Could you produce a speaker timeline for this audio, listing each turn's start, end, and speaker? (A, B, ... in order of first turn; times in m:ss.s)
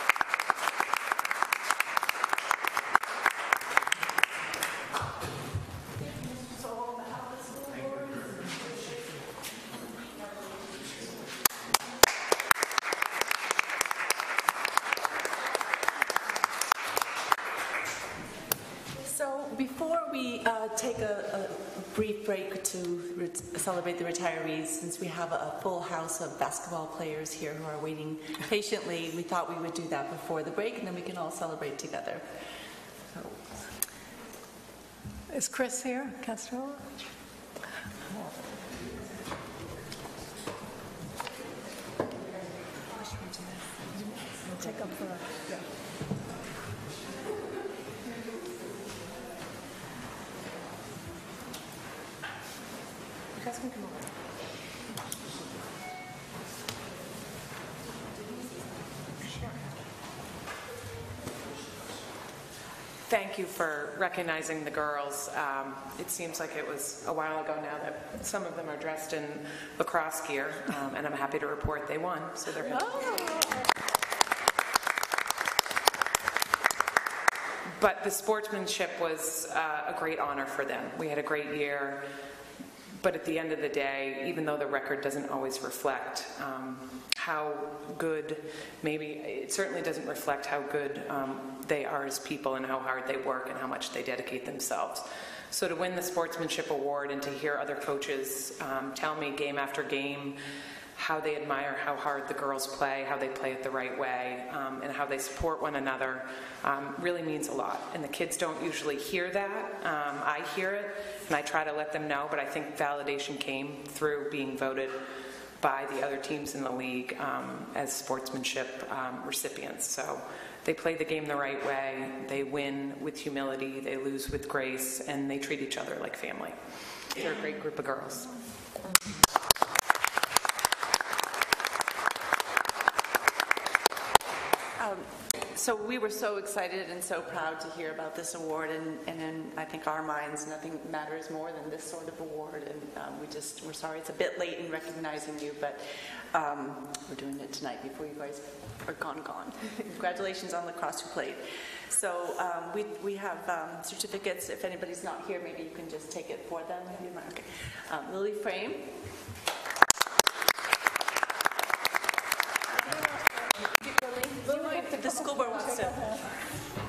0:19.0-0:32.4 A
0:33.1-0:33.6 A
0:35.3-0:36.9 B
0:42.9-0:44.9 A
0:44.5-0:45.6 B
0:53.4-0:54.1 A
1:03.1-1:13.4 C
1:17.8-1:22.1 C
1:23.0-1:40.4 C
1:41.0-1:55.0 C
1:55.6-2:06.6 C
2:07.1-2:08.4 C
2:14.8-2:39.1 A
2:43.1-2:43.5 B
2:43.6-2:46.5 A
2:44.4-2:46.3 B